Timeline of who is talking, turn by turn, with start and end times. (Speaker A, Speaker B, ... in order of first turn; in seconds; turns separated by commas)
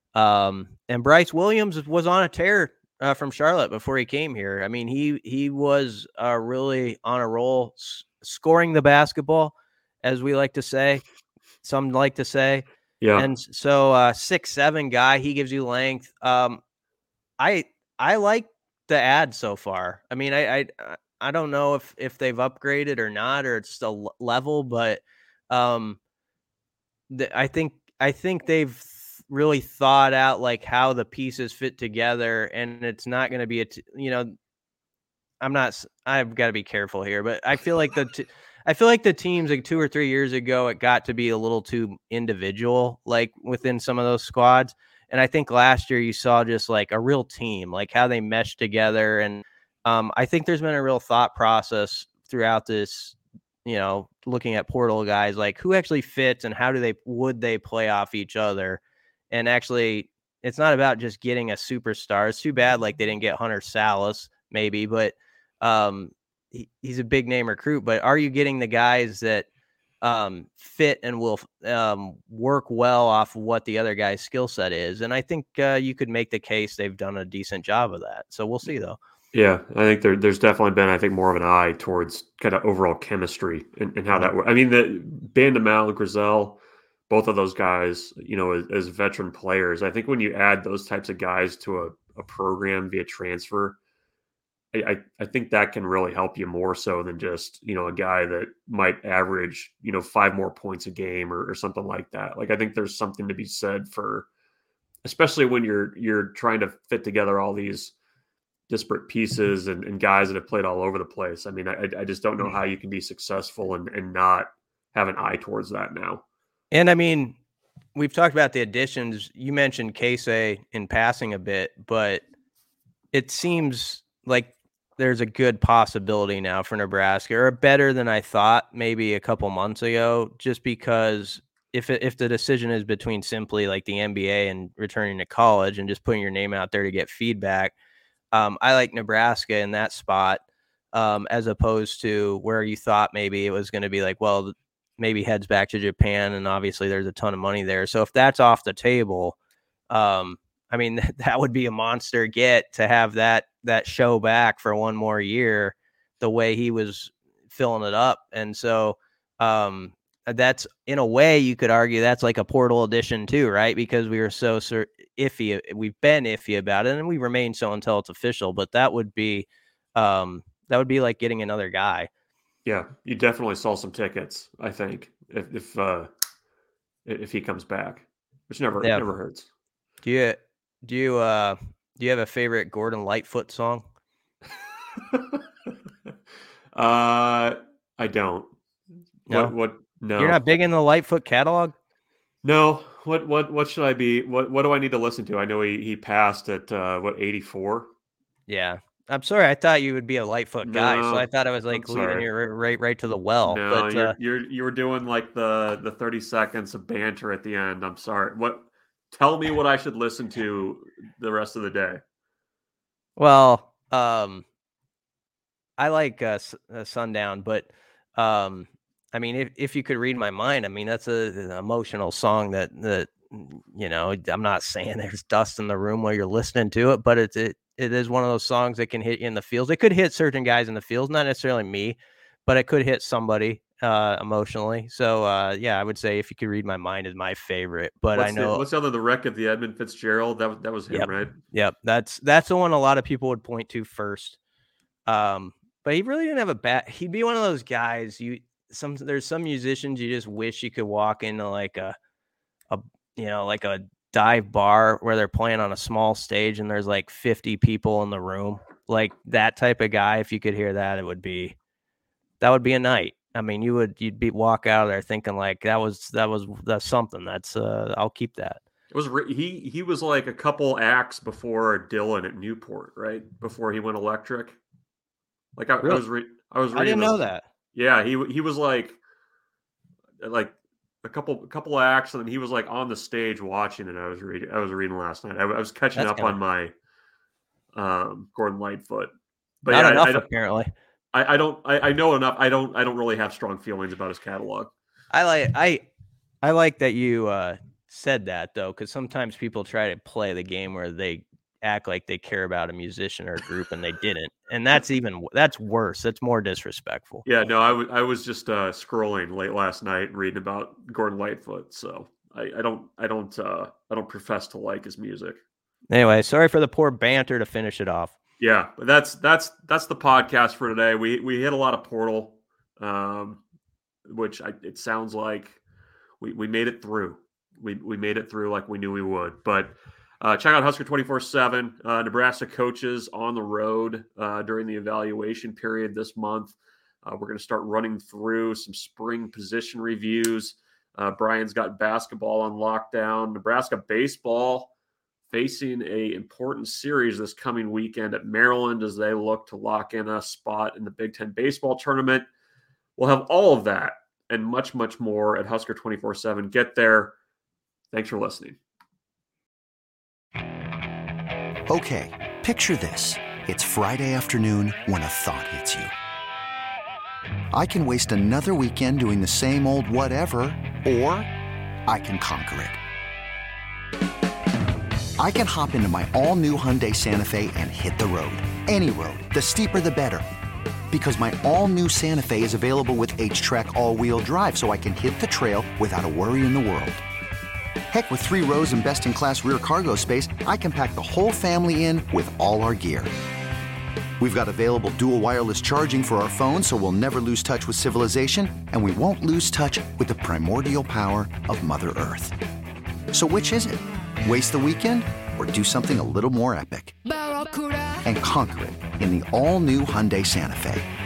Speaker A: 0.1-11.0, Speaker A: 11.6-12.6, Speaker B: 13.0-13.3, Speaker A: 13.2-16.6, Speaker A: 17.4-26.0, Speaker A: 27.1-34.3, Speaker A: 35.4-58.8, Speaker A: 59.3-69.5, Speaker A: 70.0-79.0, Speaker B: 79.3-93.8, Speaker B: 94.7-104.3, Speaker B: 105.0-107.9, Speaker B: 108.7-116.2, Speaker A: 116.7-117.3, Speaker A: 118.0-122.2, Speaker A: 123.1-137.7, Speaker A: 138.3-140.4, Speaker A: 140.9-149.3, Speaker A: 149.9-172.1, Speaker B: 172.6-176.1, Speaker B: 177.1-179.5, Speaker A: 180.0-183.8, Speaker B: 185.0-185.7, Speaker B: 186.7-188.5, Speaker B: 189.3-190.4, Speaker A: 190.2-191.7, Speaker B: 192.4-197.9, Speaker A: 198.5-204.1, Speaker B: 200.6-202.3, Speaker B: 203.4-212.0, Speaker A: 213.2-214.4, Speaker A: 215.8-238.6, Speaker B: 238.1-241.4, Speaker A: 240.9-244.4, Speaker A: 245.1-251.9, Speaker A: 252.7-261.5, Speaker A: 262.4-268.6, Speaker B: 268.9-274.6, Speaker B: 275.6-277.2, Speaker A: 276.7-277.5, Speaker B: 277.7-279.0, Speaker B: 280.2-286.7, Speaker A: 285.9-286.4, Speaker B: 287.7-290.2, Speaker A: 289.7-290.7, Speaker B: 291.1-294.7, Speaker A: 295.1-295.9, Speaker A: 296.4-307.2, Speaker B: 307.2-315.4, Speaker A: 315.9-318.1, Speaker B: 318.4-323.4, Speaker B: 324.1-325.6, Speaker B: 326.2-344.7, Speaker B: 345.3-352.3, Speaker B: 353.0-357.1, Speaker B: 357.9-358.6, Speaker C: 361.7-365.9, Speaker C: 367.5-371.3, Speaker C: 371.9-372.8, Speaker C: 375.2-380.2, Speaker C: 380.9-387.0, Speaker C: 387.9-393.1, Speaker C: 394.2-402.4, Speaker C: 403.1-407.1, Speaker C: 408.0-410.9